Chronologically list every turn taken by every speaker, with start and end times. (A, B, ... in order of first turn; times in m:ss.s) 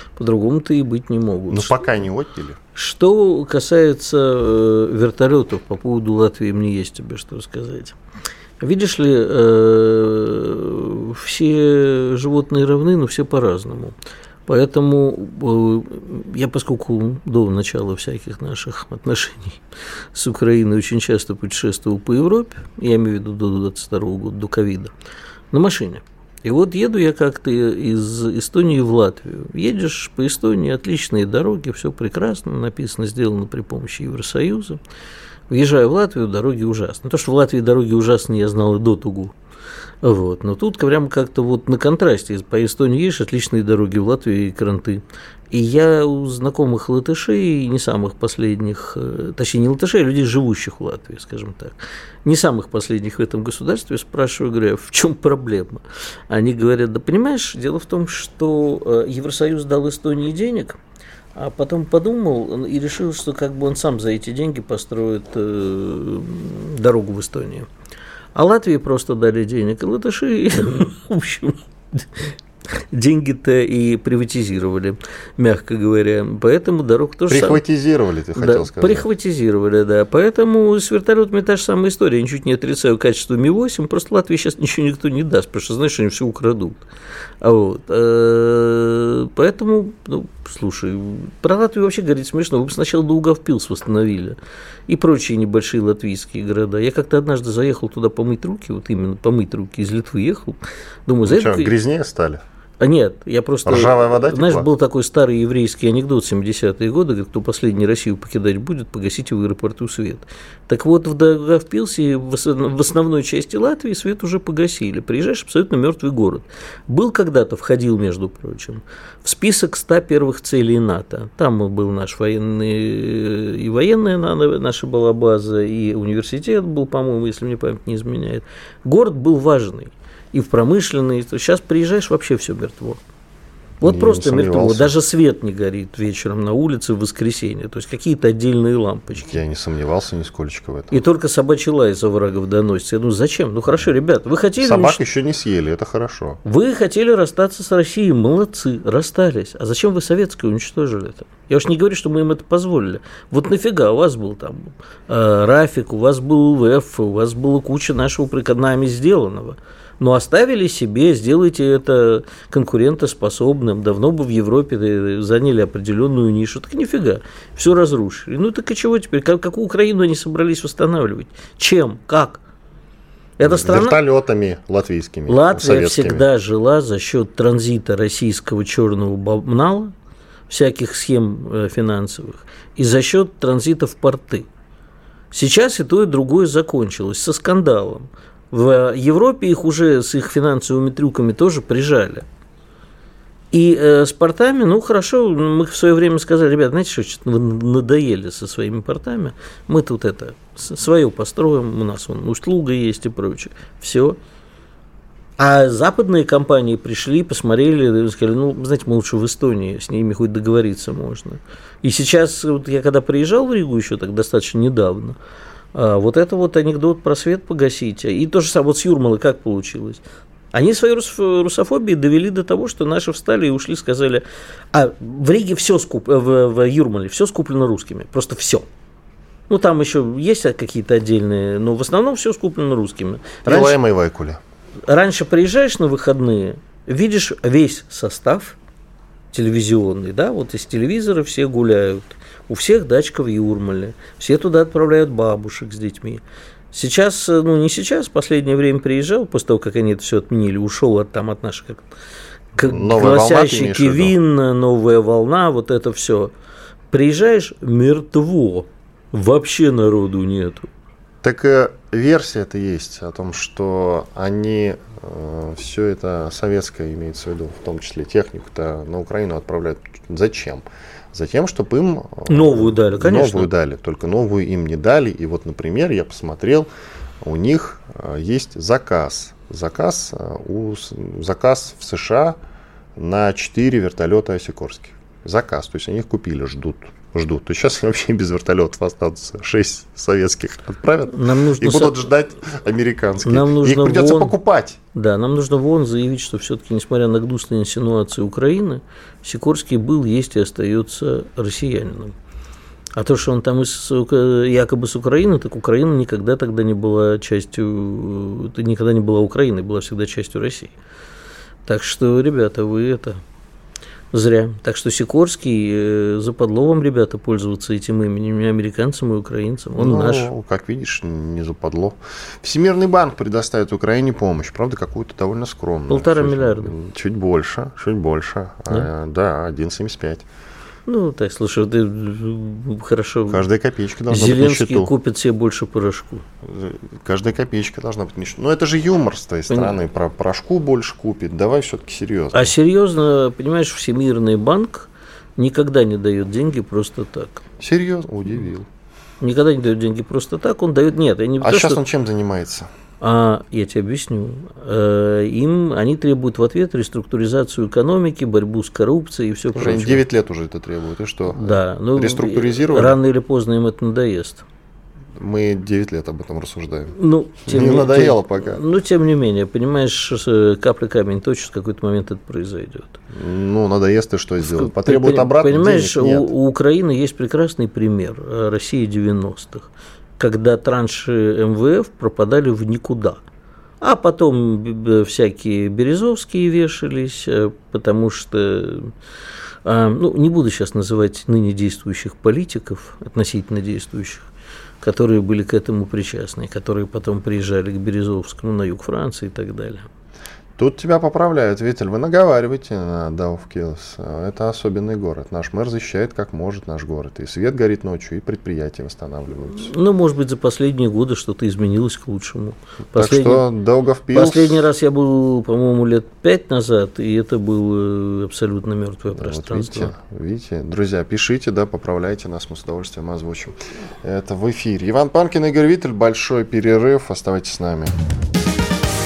0:00.2-0:01.8 A
0:01.5-0:02.6 B
0:02.8-0:08.0 A
0:08.6-0:14.0 A
0:14.5-0:19.6 A
0:20.1-0:24.9 A
0:25.5-0:34.8 A
0:35.5-0:39.3 A
0:40.0-1:00.8 A
1:01.4-1:07.7 A
1:08.4-1:17.6 A
1:17.3-1:19.1 B
1:18.4-1:26.8 A
1:27.4-1:34.4 A
1:34.9-1:41.7 A
1:41.3-1:42.4 B
1:42.8-2:13.0 A
1:43.6-1:44.7 B
2:13.8-2:14.9 B
2:13.8-2:19.4 A
2:19.2-2:21.0 B
2:20.9-2:25.0 A
2:24.6-2:26.4 B
2:26.4-2:52.4 A
2:53.4-2:54.0 A
2:53.4-2:56.3 B
2:55.3-2:59.9 A
3:00.5-3:04.5 A
3:05.3-3:12.3 A
3:13.5-3:24.2 A
3:25.4-3:35.2 A
3:35.7-3:48.7 A
3:49.5-3:53.8 A
3:53.4-3:54.4 B
3:54.9-3:58.6 A
3:59.3-4:06.2 A
4:06.7-4:11.9 A
4:12.5-4:16.3 A
4:12.7-4:14.1 B
4:16.9-4:20.7 A
4:21.2-4:36.7 B
4:32.3-4:33.5 A
4:37.2-4:42.4 B
4:43.0-4:54.8 B
4:51.1-4:52.1 A
4:53.2-4:54.4 A
4:54.9-5:02.2 A
5:03.0-5:10.7 A
5:11.7-5:13.2 A
5:14.1-5:20.3 A
5:19.8-5:30.3 B
5:25.9-5:26.7 A
5:30.9-5:33.4 A
5:33.3-5:34.9 B
5:34.1-5:36.3 A
5:36.4-5:42.6 B
5:42.3-5:47.4 A
5:47.6-5:48.7 B
5:49.2-5:51.8 A
5:51.4-5:52.7 B
5:53.0-6:00.0 A
5:59.5-6:03.0 B
6:01.3-6:04.4 A
6:05.2-6:08.6 B
6:07.0-6:13.0 A
6:13.1-6:16.3 B
6:14.4-6:23.2 A
6:23.8-6:28.9 A
6:29.6-6:34.3 A
6:34.8-6:39.9 A
6:40.6-6:49.7 B
6:49.5-6:53.4 A
6:52.9-6:54.7 B
6:54.1-6:59.9 A
6:59.1-7:08.0 B